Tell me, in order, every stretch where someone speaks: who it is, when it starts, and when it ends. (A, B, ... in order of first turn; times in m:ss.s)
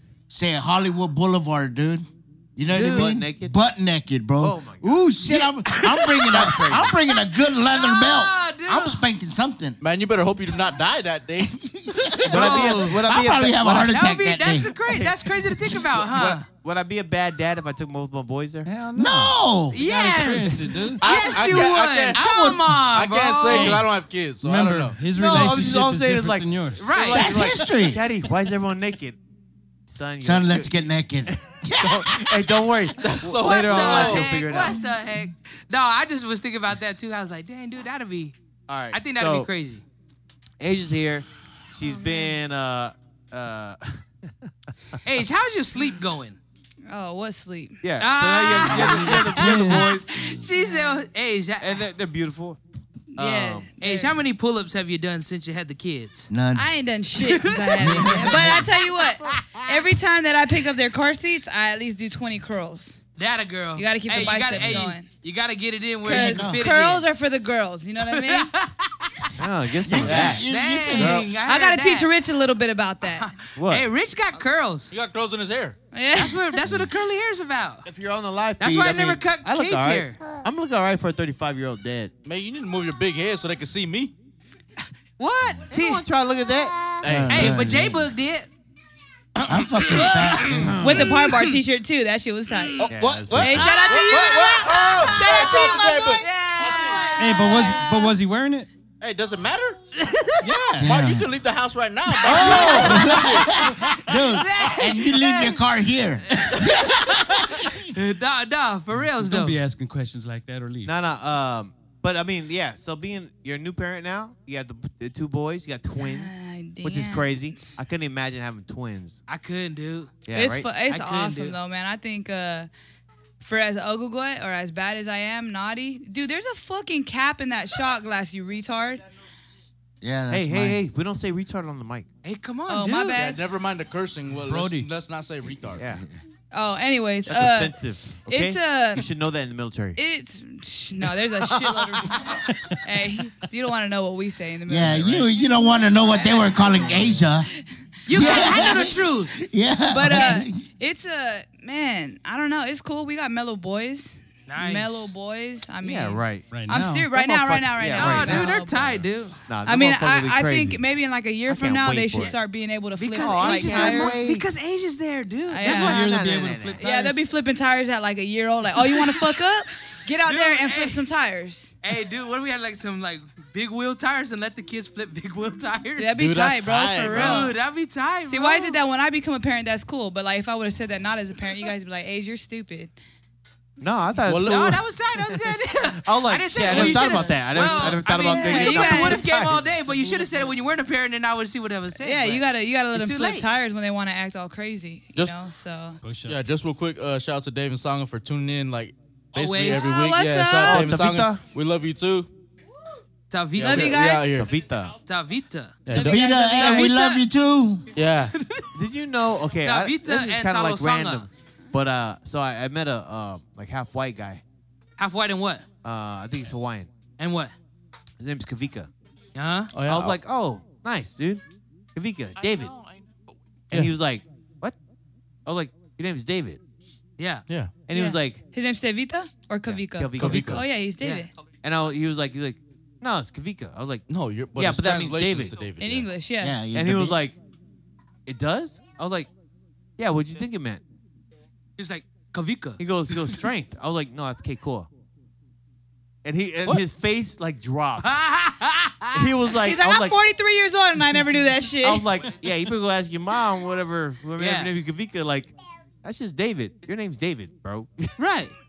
0:00.3-0:09.8 A
0:02.7-0:03.1 B
0:02.7-0:03.5 C
0:04.4-0:05.0 C
0:05.3-0:06.5 B
0:06.2-0:07.0 C
0:07.6-0:09.0 B
0:09.8-0:11.6 D
0:11.4-0:14.7 A
0:12.3-0:14.0 C
0:12.3-0:13.0 B
0:13.8-0:16.5 B
0:14.9-0:18.7 C
0:18.6-0:21.1 E
0:18.9-0:19.8 A
0:19.7-0:23.8 B
0:21.0-0:22.3 D
0:22.1-0:22.7 A
0:22.9-0:25.0 D
0:23.5-0:26.9 E
0:25.2-0:29.2 C
0:26.8-0:27.3 B
0:27.1-0:28.0 A
0:29.9-0:30.8 C
0:30.2-0:32.8 A
0:31.3-0:34.8 C
0:33.0-0:34.3 D
0:33.4-0:38.4 B
0:38.7-0:39.5 C
0:38.9-0:39.8 B
0:40.6-0:45.0 C
0:41.8-0:42.4 F
0:45.0-0:46.4 B
0:46.9-0:47.8 F
0:47.8-0:50.4 C
0:48.0-0:51.8 B
0:49.4-0:49.9 E
0:50.6-0:51.0 F
0:51.6-0:52.6 C
0:53.1-0:54.2 F
0:53.2-0:53.7 C
0:53.8-0:56.3 B
0:56.3-0:56.7 A
0:56.6-1:03.0 F
0:57.2-0:58.7 B
0:57.8-0:58.7 A
0:59.2-0:59.6 B
1:03.2-1:07.0 B
1:03.8-1:05.1 F
1:06.0-1:06.6 A
1:06.0-1:08.5 F
1:08.1-1:09.3 B
1:09.4-1:10.4 C
1:09.8-1:11.3 A
1:09.9-1:10.4 D
1:10.5-1:12.1 B
1:10.9-1:11.4 D
1:11.4-1:13.3 F
1:13.1-1:14.9 B
1:13.6-1:13.9 C
1:14.9-1:15.8 D
1:15.9-1:16.6 F
1:16.2-1:17.9 B
1:17.8-1:22.1 C
1:18.6-1:20.2 B
1:22.2-1:24.1 D
1:25.2-1:26.0 B
1:25.7-1:27.1 C
1:27.0-1:27.6 D
1:27.0-1:28.1 A
1:27.3-1:28.5 B
1:29.4-1:31.0 D
1:29.4-1:30.9 A
1:30.8-1:31.1 E
1:30.8-1:36.2 F
1:32.8-1:37.1 D
1:32.9-1:33.7 C
1:33.6-1:38.1 B
1:37.2-1:38.7 E
1:39.0-1:39.8 D
1:40.0-1:40.5 B
1:40.4-1:41.0 E
1:40.8-1:41.3 A
1:40.8-1:43.5 D
1:42.2-1:43.1 C
1:42.2-1:47.8 A
1:42.3-1:43.3 B
1:44.4-1:45.6 B
1:47.8-1:49.6 B
1:49.0-1:50.9 E
1:50.8-1:59.2 C
1:56.0-1:57.8 F
1:59.3-2:00.2 B
2:00.3-2:00.7 C
2:00.3-2:02.7 F
2:00.9-2:01.6 B
2:03.4-2:09.0 F
2:10.0-2:10.8 A
2:10.3-2:12.1 C
2:12.2-2:13.3 B
2:12.7-2:13.4 F
2:13.1-2:15.8 D
2:14.4-2:14.9 E
2:15.9-2:16.2 A
2:16.5-2:19.1 F
2:17.3-2:20.0 C
2:20.0-2:26.9 F
2:21.4-2:22.3 C
2:24.7-2:27.5 A
2:26.8-2:27.1 C
2:28.1-2:29.3 B
2:28.1-2:30.6 A
2:28.1-2:28.8 F
2:29.9-2:39.0 F
2:34.5-2:35.1 B
2:35.8-2:36.6 C
2:36.5-2:37.1 E
2:37.1-2:38.5 C
2:37.9-2:39.4 B
2:39.5-2:40.8 C
2:39.6-2:44.3 F
2:41.5-2:42.4 C
2:43.0-2:46.0 B
2:43.2-2:44.5 C
2:45.5-2:46.1 F
2:45.7-2:46.9 C
2:45.7-2:47.2 E
2:46.8-2:51.7 F
2:48.8-2:51.0 B
2:51.8-2:56.2 B
2:56.0-2:57.6 F
2:56.2-2:57.5 D
2:57.1-2:58.8 B
2:58.3-3:02.9 F
3:03.8-3:04.8 C
3:04.3-3:04.7 D
3:04.4-3:13.5 B
3:06.0-3:09.7 C
3:06.7-3:07.3 D
3:06.7-3:07.2 F
3:07.8-3:09.3 F
3:12.0-3:16.0 F
3:16.0-3:16.4 E
3:16.3-3:22.3 D
3:19.4-3:20.0 B
3:19.7-3:20.9 F
3:20.7-3:21.4 C
3:23.3-3:24.0 B
3:23.6-3:24.5 D
3:23.6-3:24.3 F
3:24.3-3:25.0 C
3:25.0-3:25.9 B
3:25.9-3:26.2 D
3:25.9-3:27.0 F
3:25.9-3:27.9 A
3:26.5-3:27.2 B
3:28.0-3:28.3 D
3:28.4-3:28.7 B
3:28.7-3:34.4 C
3:29.6-3:31.3 B
3:35.0-3:35.6 B
3:35.8-3:36.9 C
3:37.2-3:37.5 B
3:38.2-3:38.9 C
3:39.4-3:39.7 B
3:39.7-3:40.2 D
3:39.9-3:41.4 C
3:42.0-3:42.8 C
3:43.7-3:44.8 C
3:45.5-3:46.6 C
3:47.2-3:47.4 B
3:47.5-3:47.7 D
3:47.9-3:48.4 C
3:47.9-3:51.3 F
3:49.7-3:50.7 C
3:50.2-3:50.6 D
3:51.0-3:51.3 B
3:51.6-3:55.7 C
3:54.1-3:56.1 D
3:55.8-3:56.6 F
3:56.4-3:57.2 A
3:56.7-3:57.4 C
3:58.3-3:59.3 C
4:00.0-4:00.8 C
4:01.8-4:03.4 B
4:02.8-4:04.9 C
4:06.2-4:08.1 C
4:08.0-4:09.3 B
4:09.1-4:10.2 C
4:09.6-4:12.1 F
4:11.8-4:18.2 C
4:14.4-4:14.7 B
4:18.2-4:18.5 B